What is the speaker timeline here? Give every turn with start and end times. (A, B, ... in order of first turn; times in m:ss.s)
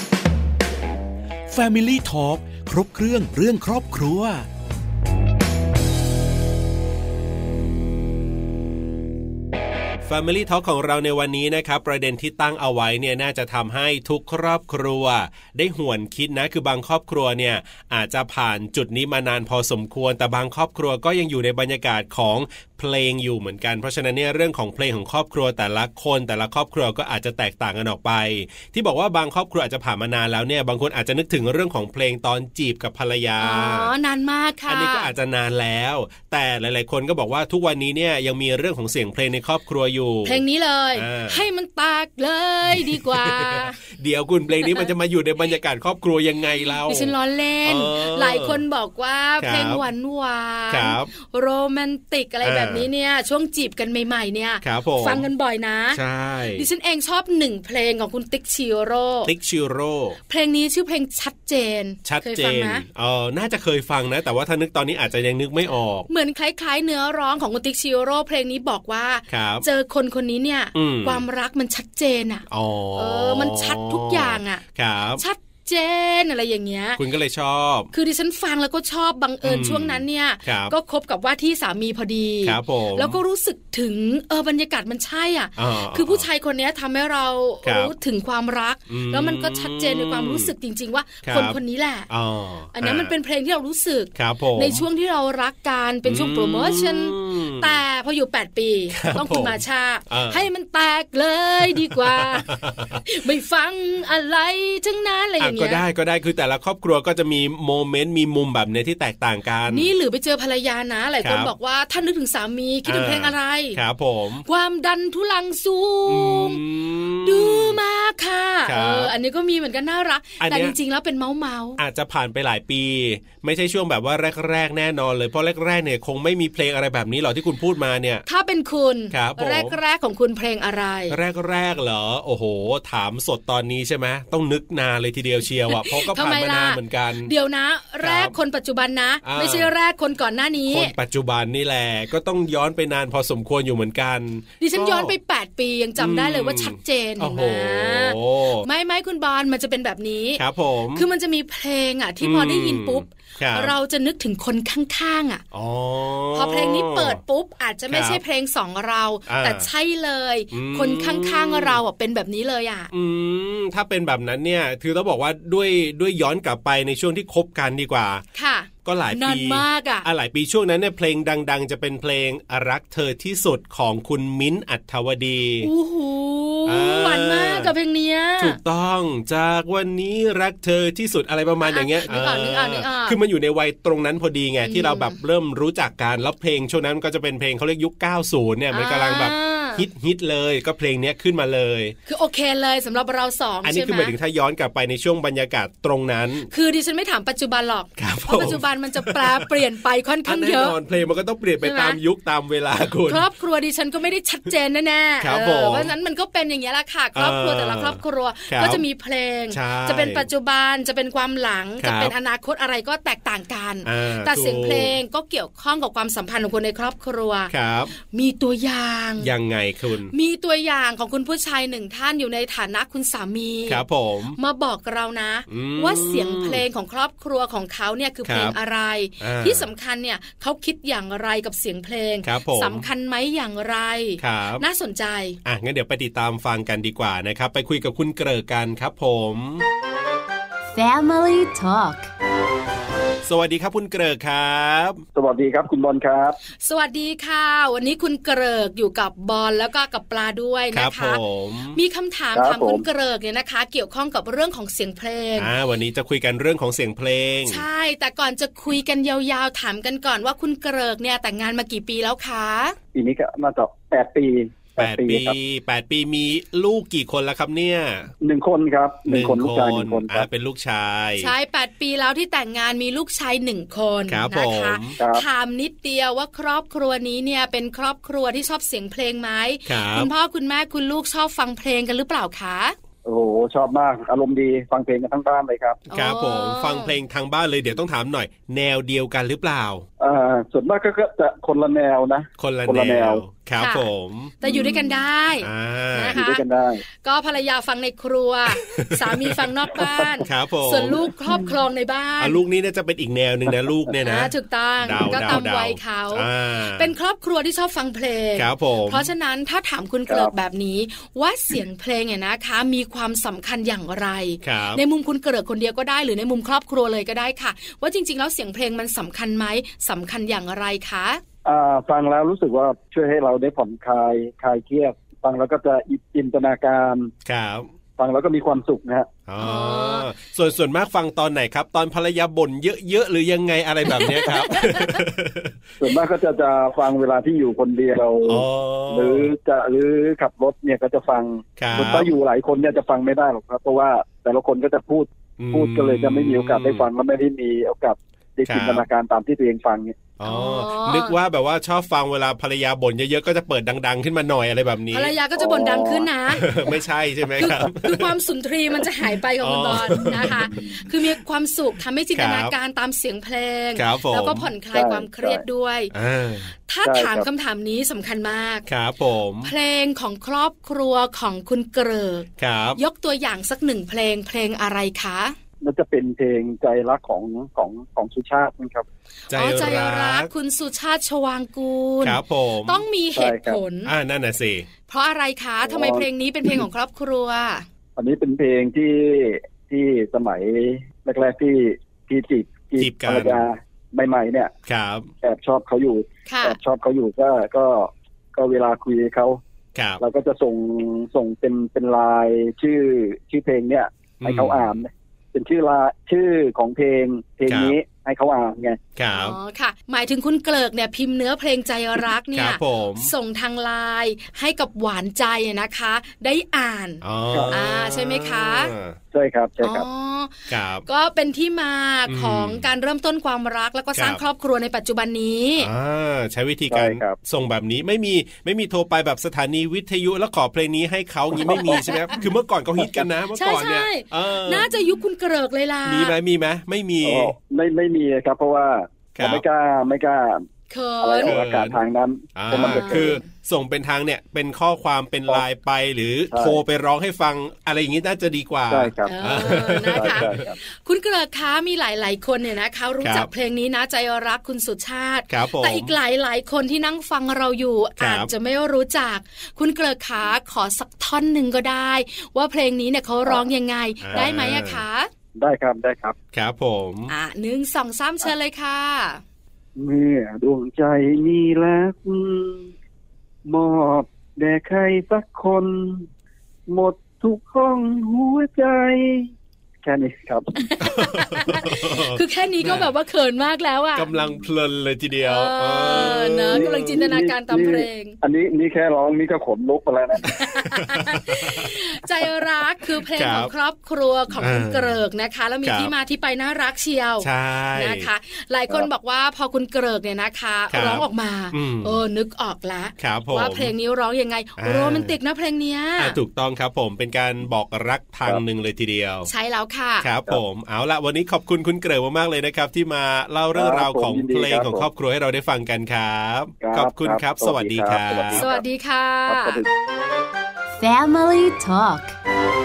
0:01.5-0:04.5 A
0:10.0-0:33.9 B
0:33.4-0:35.1 C
0:34.7-0:40.4 B
0:40.2-0:43.9 C
0:41.0-0:41.4 B
0:42.7-0:47.1 B
0:44.6-0:44.9 C
0:46.9-0:56.0 C
0:47.6-0:48.6 B
0:49.4-0:49.8 B
0:50.7-0:51.1 B
0:52.4-0:52.9 B
0:54.6-0:55.3 B
0:55.9-0:56.7 B
0:56.5-0:59.3 C
0:59.2-1:00.2 B
1:00.3-1:02.8 C
1:02.0-1:06.1 B
1:06.1-1:14.6 C
1:09.3-1:09.7 B
1:10.7-1:11.2 B
1:12.5-1:15.2 B
1:15.2-1:17.0 C
1:17.0-1:17.9 B
1:17.9-1:32.1 C
1:19.4-1:20.7 B
1:22.4-1:23.2 B
1:25.6-1:26.3 B
1:27.6-1:27.9 B
1:28.9-1:30.5 B
1:31.2-1:31.6 B
1:32.1-1:33.1 B
1:32.7-1:45.8 C
1:34.2-1:34.8 B
1:36.0-1:37.8 B
1:38.9-1:40.5 B
1:41.6-1:43.0 B
1:45.4-1:49.9 B
1:49.7-1:53.8 C
1:51.2-1:51.5 B
1:52.8-1:54.4 B
1:54.4-1:56.6 C
1:56.1-1:57.8 B
1:57.2-2:01.8 C
1:58.6-1:59.1 B
2:00.4-2:00.8 B
2:01.8-2:08.2 B
2:08.3-2:11.2 C
2:09.1-2:09.8 B
2:11.1-2:17.3 B
2:15.7-2:20.9 C
2:18.0-2:18.4 B
2:19.2-2:19.7 B
2:20.7-2:25.1 B
2:24.6-2:30.4 C
2:26.0-2:28.7 B
2:30.4-2:31.0 B
2:31.0-2:35.4 C
2:32.2-2:33.7 B
2:35.5-2:37.2 B
2:36.3-2:42.9 C
2:37.9-2:38.2 B
2:39.3-2:39.7 B
2:40.5-2:41.8 B
2:42.9-2:48.2 B
2:48.4-2:50.1 C
2:48.8-2:55.7 B
2:55.6-2:58.6 C
2:56.7-2:57.7 B
2:58.4-3:12.0 B
3:01.6-3:03.2 C
3:04.6-3:05.2 C
3:08.7-3:09.9 C
3:12.1-3:14.2 C
3:13.6-3:16.5 B
3:16.5-3:20.8 C
3:18.0-3:19.6 B
3:20.2-3:23.3 B
3:21.6-3:22.0 C
3:23.0-3:39.3 C
3:25.2-3:25.9 B
3:27.2-3:28.8 B
3:29.5-3:30.3 B
3:31.8-3:32.1 B
3:33.8-3:35.0 B
3:37.5-3:37.9 B
3:39.2-3:40.1 B
3:40.1-3:43.8 C
3:43.7-3:44.4 B
3:44.4-3:55.4 C
3:45.5-3:46.6 B
3:48.2-3:48.6 B
3:49.2-3:49.7 B
3:52.2-3:52.9 B
3:54.2-3:54.6 B
3:55.4-3:59.6 B
4:00.7-4:02.1 D
4:03.2-4:05.0 B
4:05.2-4:06.4 E
4:06.6-4:11.2 C
4:10.7-4:11.8 B
4:11.7-4:15.5 C
4:12.4-4:12.8 E
4:15.4-4:17.6 B
4:17.5-4:22.8 C
4:22.9-4:25.4 E
4:24.8-4:28.1 B
4:28.2-4:30.3 E
4:29.1-4:31.3 B
4:31.2-4:42.8 C
4:34.1-4:35.0 B
4:35.0-4:35.2 E
4:39.7-4:40.1 B
4:43.0-4:45.8 E
4:45.9-4:47.0 C
4:45.9-4:49.9 B
4:50.0-4:53.2 E
4:52.4-4:54.7 B
4:53.6-4:53.9 C
4:54.4-5:02.4 C
4:54.4-4:54.9 E
4:55.4-4:56.2 B
4:56.1-4:56.8 E
4:58.6-4:59.4 B
4:59.8-5:00.1 E
5:00.2-5:01.1 B
5:01.3-5:01.5 E
5:02.2-5:06.9 B
5:04.0-5:21.2 C
5:08.4-5:09.1 B
5:14.4-5:14.8 B
5:21.4-5:27.1 E
5:27.2-5:27.7 B
5:28.0-5:29.1 E
5:29.3-5:35.6 B
5:29.4-5:30.1 C
5:33.9-5:34.9 C
5:35.8-5:50.0 E
5:38.2-5:39.3 B
5:41.6-5:42.1 B
5:45.4-5:46.9 B
5:48.5-5:48.9 B
5:50.2-5:55.1 B
5:50.2-5:51.2 C
5:54.9-5:56.6 C
5:55.4-5:56.5 E
5:56.3-5:58.1 B
5:57.4-6:05.9 C
5:59.4-6:00.6 B
6:00.2-6:00.8 E
6:02.2-6:02.5 B
6:03.8-6:04.5 B
6:04.7-6:05.4 E
6:05.9-6:06.5 B
6:06.7-6:08.7 C
6:06.8-6:07.3 E
6:08.7-6:09.5 B
6:09.4-6:15.4 C
6:12.4-6:12.8 B
6:15.6-6:18.8 E
6:19.3-6:20.3 B
6:19.3-6:23.9 C
6:22.0-6:22.8 B
6:23.2-6:23.6 E
6:23.8-6:24.7 B
6:24.9-6:27.7 C
6:25.6-6:26.6 E
6:28.0-6:34.5 E
6:32.8-6:33.4 B
6:34.7-6:35.1 B
6:35.2-6:39.4 E
6:36.3-6:36.6 C
6:39.8-6:40.0 B
6:40.0-6:48.8 E
6:44.2-6:44.7 B
6:47.5-6:47.8 B
6:49.0-6:49.4 B
6:49.1-6:58.7 C
6:52.3-6:53.1 B
6:57.0-6:59.0 B
6:59.1-6:59.9 E
6:59.6-7:05.7 C
7:00.5-7:00.8 B
7:02.1-7:02.7 B
7:04.0-7:04.2 B
7:05.6-7:14.7 B
7:06.7-7:07.2 E
7:11.4-7:11.9 E
7:11.5-7:12.2 C
7:12.8-7:13.1 E
7:13.4-7:16.2 C
7:15.8-7:17.4 B
7:17.0-7:20.4 E
7:19.2-7:19.4 B
7:20.7-7:21.4 C
7:21.0-7:23.2 E
7:21.2-7:21.8 B
7:22.4-7:30.4 B
7:22.5-7:23.2 C
7:26.3-7:26.6 E
7:28.7-7:30.6 E
7:29.0-7:45.1 C
7:33.0-7:33.3 B
7:35.3-7:35.9 B
7:38.0-7:38.3 B
7:44.0-7:44.8 B
7:45.4-7:46.2 E
7:46.3-7:47.1 B
7:47.1-7:49.2 C
7:49.8-7:52.7 E
7:53.4-7:56.1 E
7:56.7-7:59.3 E
7:59.8-8:00.7 E
8:00.6-8:04.1 C
8:00.8-8:02.9 B
8:04.0-8:06.8 B
8:05.2-8:08.2 C
8:05.9-8:10.4 E
8:10.2-8:26.2 C
8:10.7-8:11.7 B
8:13.2-8:13.5 B
8:14.4-8:15.0 B
8:15.6-8:15.9 B
8:17.2-8:18.1 B
8:20.7-8:22.0 B
8:23.0-8:23.7 B
8:24.6-8:25.2 B
8:26.0-8:29.3 B
8:29.2-8:30.1 C
8:30.0-8:38.5 B
8:33.5-8:34.9 E
8:36.6-8:38.6 E
8:38.3-8:39.6 C
8:39.3-8:39.7 E
8:40.8-8:42.2 D